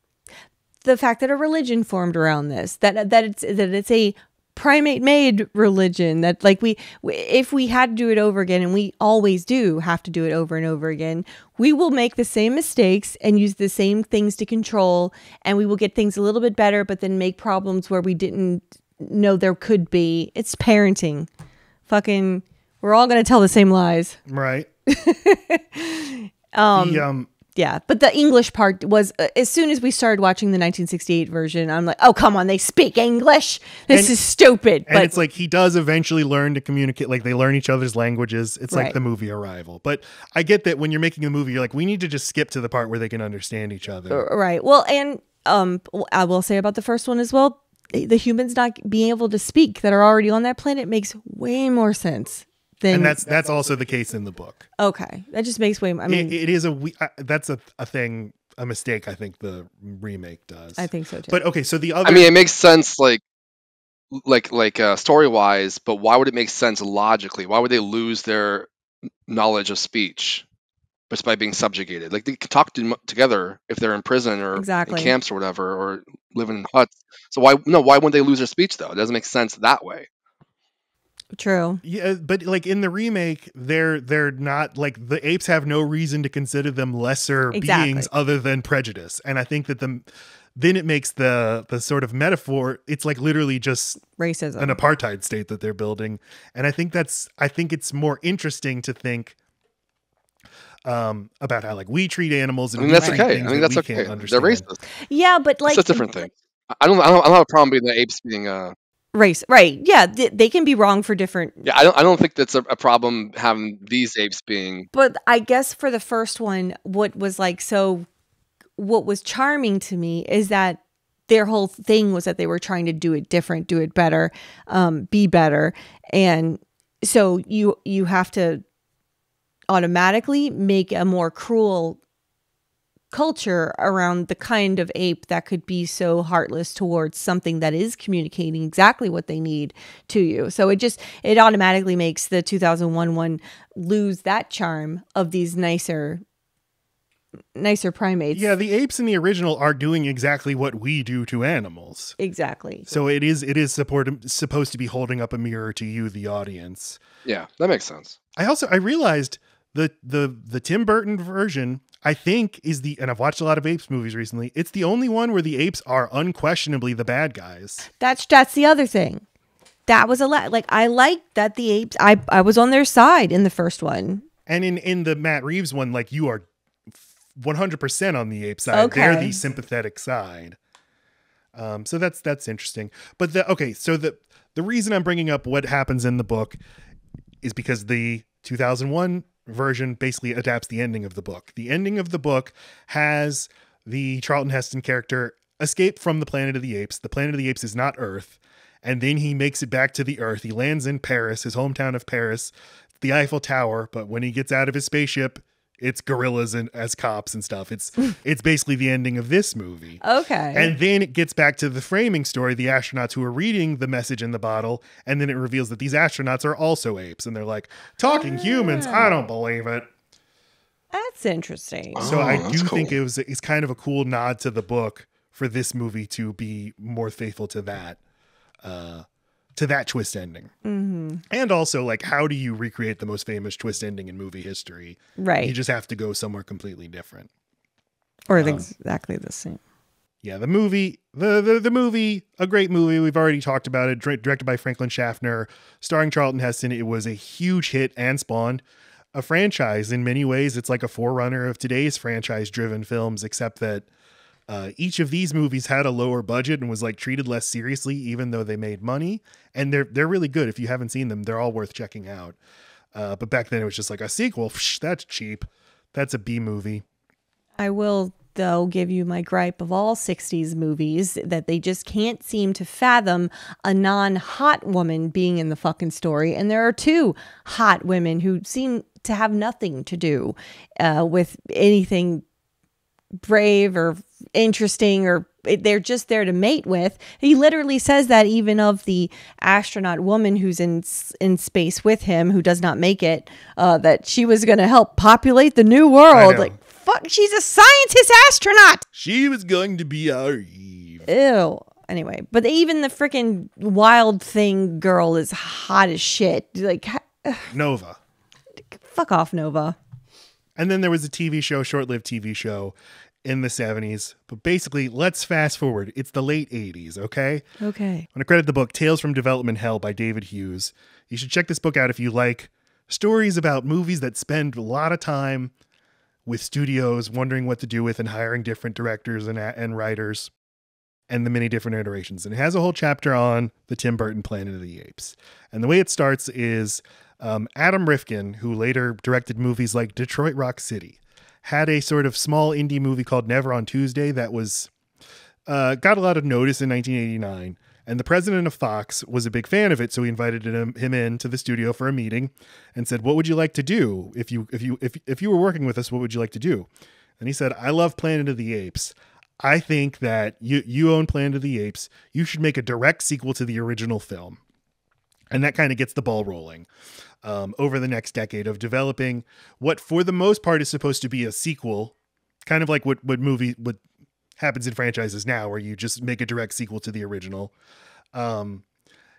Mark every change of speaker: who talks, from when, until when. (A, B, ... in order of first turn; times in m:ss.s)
0:00.8-0:21.3 A
0:21.9-0:24.2 A
0:24.3-0:24.7 B
0:24.9-0:35.2 A
0:26.7-0:27.3 B
0:33.9-0:34.2 B
0:34.9-0:44.2 B
0:38.7-0:39.0 A
0:44.1-0:53.2 A
0:52.9-0:54.7 B
0:54.8-0:56.4 A
0:56.1-1:02.4 B
1:00.8-1:01.4 A
1:02.0-1:03.2 C
1:04.1-1:08.7 C
1:09.3-1:10.4 C
1:11.1-1:20.1 C
1:14.6-1:15.2 A
1:21.4-1:21.8 A
1:21.8-1:34.0 B
1:27.5-1:28.1 A
1:34.1-1:34.8 A
1:34.6-1:39.4 B
1:40.8-1:44.6 B
1:42.8-1:44.8 C
1:43.0-1:43.3 A
1:45.1-1:46.3 A
1:45.6-1:48.8 C
1:49.1-1:51.7 A
1:51.6-1:54.9 C
1:54.9-1:58.1 A
1:58.8-2:08.6 A
2:09.7-2:12.0 A
2:13.1-2:26.2 A
2:27.6-2:28.5 A
2:28.3-2:32.2 B
2:32.2-2:33.0 A
2:32.9-2:37.0 B
2:37.2-2:38.2 C
2:38.4-2:47.9 B
2:48.0-2:49.2 A
2:49.9-2:54.2 A
2:54.5-3:00.6 B
2:58.7-2:59.4 A
3:01.6-3:06.6 B
3:07.4-3:30.0 B
3:30.0-3:30.7 A
3:30.5-3:39.9 B
3:38.2-3:39.1 A
3:40.9-3:42.2 A
3:42.0-3:43.0 C
3:42.0-3:48.0 B
3:48.6-3:50.5 B
3:50.6-3:51.2 A
3:51.3-3:57.3 B
3:55.2-3:55.6 A
3:58.3-3:59.6 A
3:58.4-3:58.7 B
4:00.2-4:08.6 B
4:09.1-4:13.9 B
4:14.5-4:22.4 B
4:22.9-4:26.8 B
4:27.6-4:42.2 A
4:43.2-4:58.8 A
4:56.1-4:56.6 B
4:59.0-5:01.1 B
5:01.1-5:07.5 A
5:07.5-5:08.0 B
5:08.7-5:09.8 A
5:10.6-5:17.5 B
5:17.6-5:18.1 A
5:18.1-5:25.5 B
5:26.3-5:30.3 B
5:31.1-5:44.7 B
5:45.5-5:56.7 B
5:57.2-6:04.4 B
6:05.3-6:06.7 B
6:07.2-6:12.0 B
6:12.5-6:13.8 B
6:14.4-6:17.5 B
6:18.1-6:18.6 B